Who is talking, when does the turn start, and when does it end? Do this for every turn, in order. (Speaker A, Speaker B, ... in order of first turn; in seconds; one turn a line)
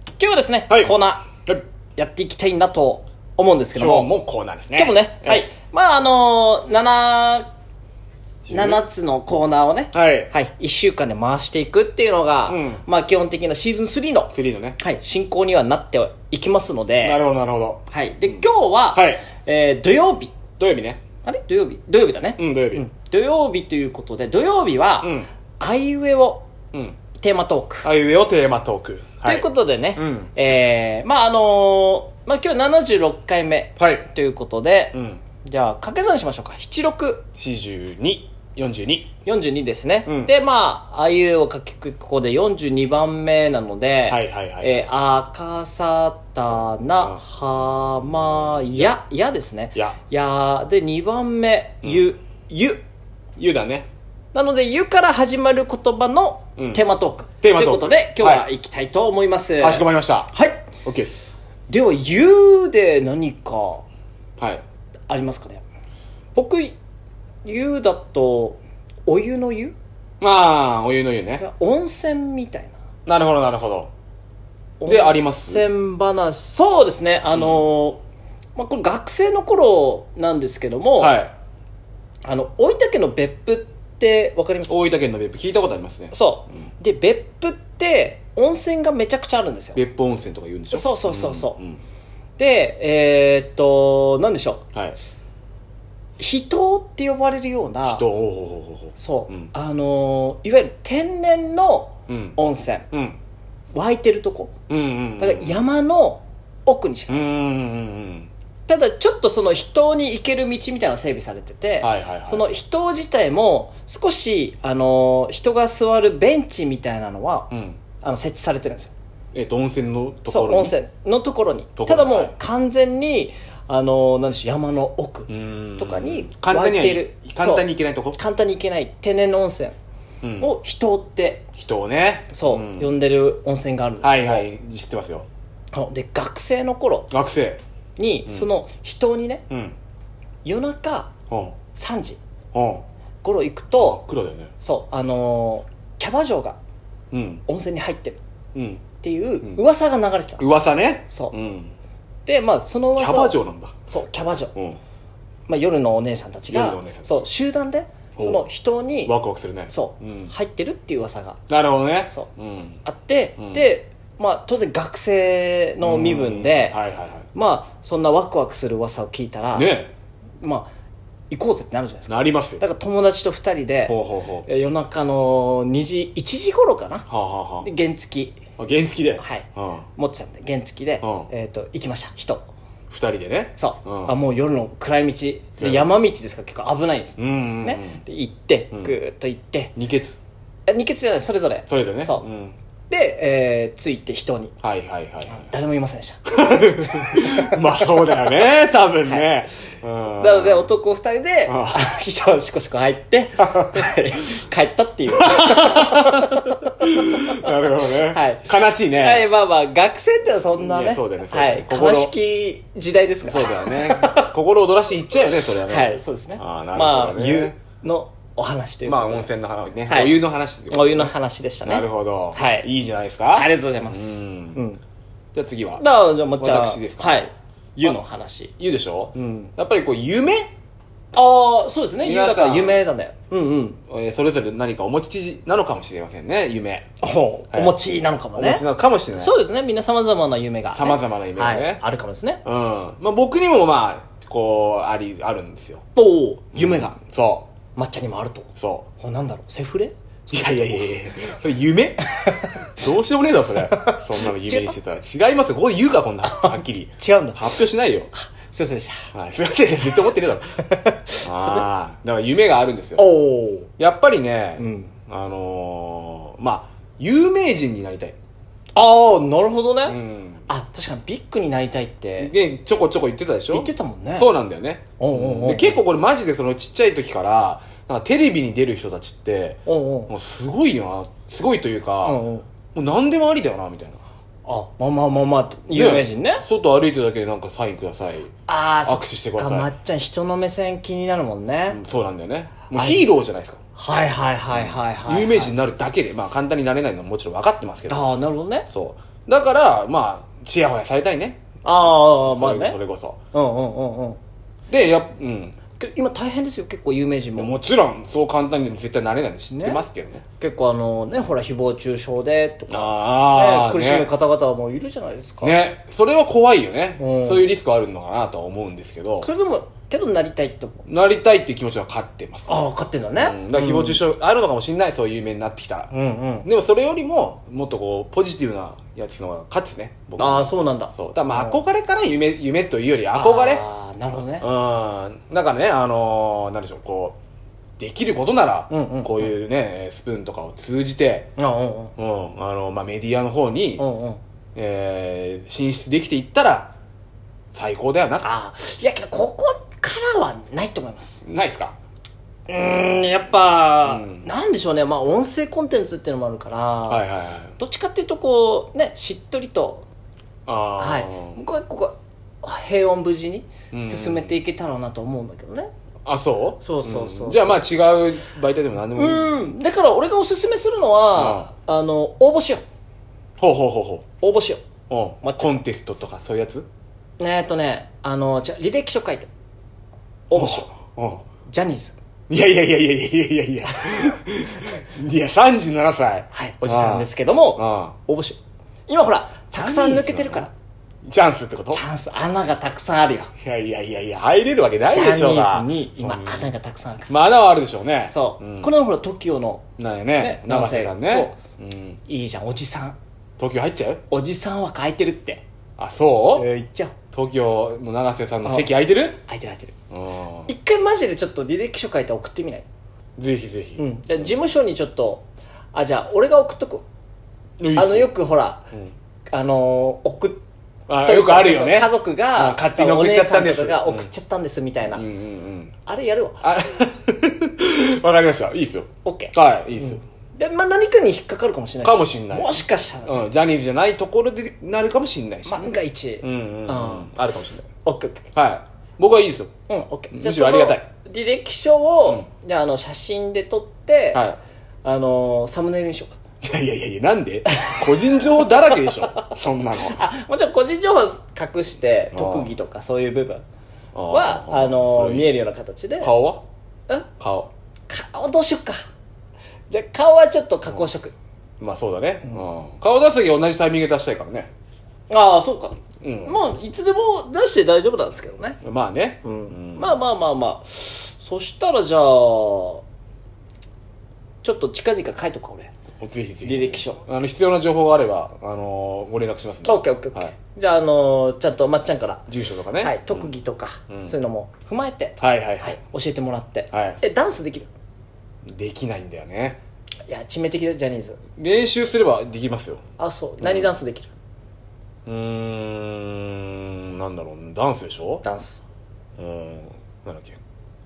Speaker A: 0.2-1.3
Speaker B: 0.7-0.9
Speaker A: 2.0-4.1
Speaker B: 3.7-5.4
Speaker A: 4.8-7.5
Speaker B: 8.5-8.8
Speaker A: 8.5-17.2
Speaker B: 9.9-10.3
Speaker B: 12.5-12.8
Speaker B: 14.3-14.8
Speaker B: 17.0-19.2
Speaker A: 17.9-20.3
Speaker B: 20.6-21.0
Speaker A: 21.2-26.5
Speaker B: 22.4-22.9
Speaker B: 25.0-25.3
Speaker A: 27.2-27.9
Speaker B: 27.8-29.4
Speaker A: 29.2-37.2
Speaker B: 30.0-30.3
Speaker B: 33.8-34.1
Speaker B: 34.9-35.2
Speaker B: 37.4-39.1
Speaker A: 39.2-52.8
Speaker B: 40.1-40.3
Speaker B: 44.1-44.9
Speaker B: 48.5-48.9
Speaker B: 53.4-53.9
Speaker A: 54.3-60.6
Speaker B: 56.6-56.8
Speaker B: 57.4-58.5
Speaker B: 59.6-60.3
Speaker B: 60.8-61.3
Speaker A: 61.7-63.8
Speaker B: 64.4-64.6
Speaker A: 65.1-65.6
Speaker A: 66.3-66.8
Speaker A: 67.4-69.8
Speaker B: 70.2-71.4
Speaker A: 71.4-72.8
Speaker B: 73.1-73.9
Speaker A: 74.8-78.0
Speaker B: 74.9-75.7
Speaker B: 77.3-77.6
Speaker A: 78.6-81.2
Speaker B: 81.0-81.3
Speaker A: 82.2-84.8
Speaker B: 84.7-86.2
Speaker A: 86.1-89.8
Speaker B: 89.8-91.8
Speaker A: 90.7-91.6
Speaker A: 92.4-94.6
Speaker A: 96.2-98.0
Speaker B: 97.8-99.5
Speaker A: 99.0-102.9
Speaker B: 102.1-102.4
Speaker B: 102.9-103.2
Speaker A: 103.7-104.5
Speaker B: 104.7-105.6
Speaker A: 105.2-107.4
Speaker B: 107.1-108.3
Speaker A: 108.7-118.9
Speaker B: 111.8-112.5
Speaker B: 117.5-117.8
Speaker B: 119.3-120.7
Speaker A: 120.3-129.8
Speaker B: 121.8-122.3
Speaker B: 125.3-128.2
Speaker B: 130.2-130.5
Speaker A: 130.4-131.5
Speaker B: 131.6-132.9
Speaker A: 132.3-134.5
Speaker B: 134.0-135.3
Speaker A: 135.7-137.1
Speaker B: 137.1-137.6
Speaker A: 138.0-139.4
Speaker B: 139.5-139.8
Speaker A: 140.4-141.1
Speaker B: 141.3-141.6
Speaker A: 141.7-142.2
Speaker B: 142.5-142.8
Speaker A: 143.2-144.0
Speaker B: 143.8-144.5
Speaker A: 144.6-146.6
Speaker B: 147.1-147.4
Speaker A: 147.5-148.2
Speaker B: 148.6-148.8
Speaker A: 149.0-150.4
Speaker B: 150.4-151.7
Speaker A: 151.1-151.3
Speaker A: 152.3-154.5
Speaker B: 153.0-153.8
Speaker B: 154.6-154.8
Speaker A: 155.5-159.1
Speaker B: 156.5-157.2
Speaker B: 158.2-158.4
Speaker B: 159.1-160.3
Speaker A: 159.7-161.4
Speaker B: 161.5-162.8
Speaker A: 162.8-166.8
Speaker B: 165.8-167.3
Speaker A: 167.3-169.7
Speaker B: 169.6-169.9
Speaker A: 170.4-170.7
Speaker A: 171.3-177.1
Speaker B: 172.1-172.6
Speaker B: 173.9-174.5
Speaker B: 177.1-177.7
Speaker A: 177.6-178.4
Speaker B: 178.6-179.9
Speaker A: 179.2-182.4
Speaker B: 181.0-181.3
Speaker B: 182.9-184.2
Speaker A: 183.6-189.7
Speaker B: 185.6-185.9
Speaker B: 187.2-188.0
Speaker B: 189.8-190.2
Speaker A: 190.7-192.3
Speaker B: 191.7-192.6
Speaker A: 192.9-194.5
Speaker B: 194.6-195.5
Speaker A: 195.3-197.9
Speaker B: 196.3-200.7
Speaker A: 200.2-214.3
Speaker B: 201.5-201.9
Speaker B: 203.4-203.9
Speaker B: 205.1-209.3
Speaker B: 210.6-212.1
Speaker B: 213.2-217.6
Speaker A: 215.7-219.3
Speaker B: 218.8-221.1
Speaker A: 219.9-220.2
Speaker A: 220.7-222.7
Speaker B: 221.6-224.6
Speaker A: 223.3-224.8
Speaker B: 225.3-225.8
Speaker A: 225.8-228.5
Speaker B: 226.4-227.2
Speaker B: 228.6-230.5
Speaker A: 229.2-229.5
Speaker A: 231.1-233.8
Speaker B: 232.0-232.8
Speaker B: 233.9-236.9
Speaker A: 237.0-242.4
Speaker B: 237.5-237.8
Speaker B: 238.3-239.4
Speaker B: 240.7-241.8
Speaker B: 242.4-245.8
Speaker A: 246.0-247.0
Speaker B: 246.6-247.5
Speaker A: 247.8-249.9
Speaker B: 248.6-248.9
Speaker B: 250.3-258.1
Speaker A: 252.1-252.7
Speaker A: 253.7-254.8
Speaker A: 256.3-257.6
Speaker A: 258.1-259.1
Speaker B: 259.1-260.6
Speaker A: 260.6-261.7
Speaker B: 261.2-263.1
Speaker A: 263.0-263.7
Speaker B: 263.8-268.2
Speaker A: 264.6-264.9
Speaker A: 268.8-270.0
Speaker B: 269.9-270.5
Speaker A: 270.5-272.3
Speaker B: 272.2-282.2
Speaker A: 273.5-274.3
Speaker A: 275.0-275.8
Speaker A: 279.7-280.1
Speaker A: 282.0-282.5
Speaker B: 282.7-284.0
Speaker A: 284.5-286.4
Speaker B: 285.7-288.3
Speaker A: 288.5-291.8
Speaker B: 288.9-289.7
Speaker B: 291.7-293.6
Speaker A: 292.8-293.1
Speaker A: 293.8-295.5
Speaker B: 294.5-298.1
Speaker A: 297.9-298.7
Speaker B: 298.7-303.2
Speaker A: 301.6-302.8
Speaker A: 303.3-304.2
Speaker B: 304.7-305.6
Speaker A: 305.8-307.5
Speaker B: 307.4-310.2
Speaker A: 309.5-309.8
Speaker A: 310.4-315.6
Speaker B: 312.7-314.1
Speaker B: 315.4-319.3
Speaker A: 317.0-317.5
Speaker A: 319.2-320.9
Speaker B: 320.9-322.6
Speaker A: 322.5-324.0
Speaker B: 323.2-325.9
Speaker A: 325.9-326.5
Speaker B: 326.4-333.6
Speaker A: 330.2-331.6
Speaker A: 333.2-334.5
Speaker B: 334.4-337.2
Speaker B: 337.8-341.3
Speaker A: 338.7-339.3
Speaker A: 341.4-341.9
Speaker B: 342.0-343.8
Speaker A: 343.8-344.2
Speaker B: 344.6-346.7
Speaker B: 347.5-348.3
Speaker A: 348.2-351.2
Speaker B: 351.2-351.8
Speaker A: 352.5-357.0
Speaker B: 353.9-354.3
Speaker B: 356.9-357.6
Speaker A: 357.6-359.9
Speaker B: 360.5-361.4
Speaker A: 360.8-365.7
Speaker B: 363.7-364.4
Speaker B: 366.1-369.3
Speaker A: 366.6-367.6
Speaker A: 368.9-372.6
Speaker B: 371.1-371.5
Speaker B: 373.4-374.1
Speaker A: 374.2-374.6
Speaker B: 374.9-376.7
Speaker A: 375.2-375.6
Speaker A: 377.2-379.3
Speaker A: 380.3-380.7
Speaker B: 380.4-381.2
Speaker A: 381.5-382.0
Speaker B: 382.3-388.0
Speaker A: 383.7-384.1
Speaker A: 386.3-390.5
Speaker B: 389.5-390.5
Speaker B: 391.1-391.8
Speaker A: 391.7-393.3
Speaker B: 393.4-396.5
Speaker A: 394.9-397.1
Speaker B: 397.1-398.7
Speaker A: 398.1-399.6
Speaker B: 399.8-402.0
Speaker A: 400.2-401.4
Speaker A: 402.1-403.0
Speaker B: 403.4-404.0
Speaker A: 404.1-405.4
Speaker B: 405.8-406.5
Speaker A: 406.4-406.9
Speaker B: 407.1-409.2
Speaker A: 408.4-408.7
Speaker A: 409.2-409.8
Speaker B: 409.9-410.5
Speaker A: 410.5-412.6
Speaker B: 413.2-414.3
Speaker A: 413.8-416.9
Speaker B: 417.6-418.1
Speaker A: 417.8-418.7
Speaker A: 419.3-420.4
Speaker B: 420.9-424.1
Speaker A: 421.0-425.0
Speaker B: 424.9-425.7
Speaker A: 425.9-426.4
Speaker B: 426.4-430.0
Speaker A: 429.1-433.3
Speaker B: 431.8-437.6
Speaker A: 435.5-438.3
Speaker B: 438.4-439.5
Speaker A: 439.7-444.2
Speaker B: 440.1-440.9
Speaker B: 444.1-444.4
Speaker A: 444.8-446.2
Speaker B: 446.4-450.0
Speaker A: 447.5-449.0
Speaker A: 449.8-453.4
Speaker B: 452.1-452.5
Speaker B: 453.9-455.3
Speaker A: 454.1-456.1
Speaker B: 456.0-456.4
Speaker B: 457.2-457.5
Speaker A: 457.9-458.8
Speaker A: 459.7-461.1
Speaker B: 461.6-464.5
Speaker A: 465.1-468.6
Speaker B: 466.0-466.4
Speaker B: 468.6-470.0
Speaker A: 469.2-472.8
Speaker A: 474.4-475.7
Speaker B: 476.0-480.3
Speaker A: 476.4-477.0
Speaker A: 479.6-482.2
Speaker B: 482.3-483.3
Speaker A: 482.8-487.7
Speaker B: 485.2-485.8
Speaker B: 486.7-487.0
Speaker B: 488.4-489.6
Speaker A: 490.1-491.2
Speaker B: 491.4-492.8
Speaker A: 493.0-494.1
Speaker B: 493.4-493.7
Speaker B: 495.1-498.2
Speaker A: 498.2-498.6
Speaker B: 499.2-500.4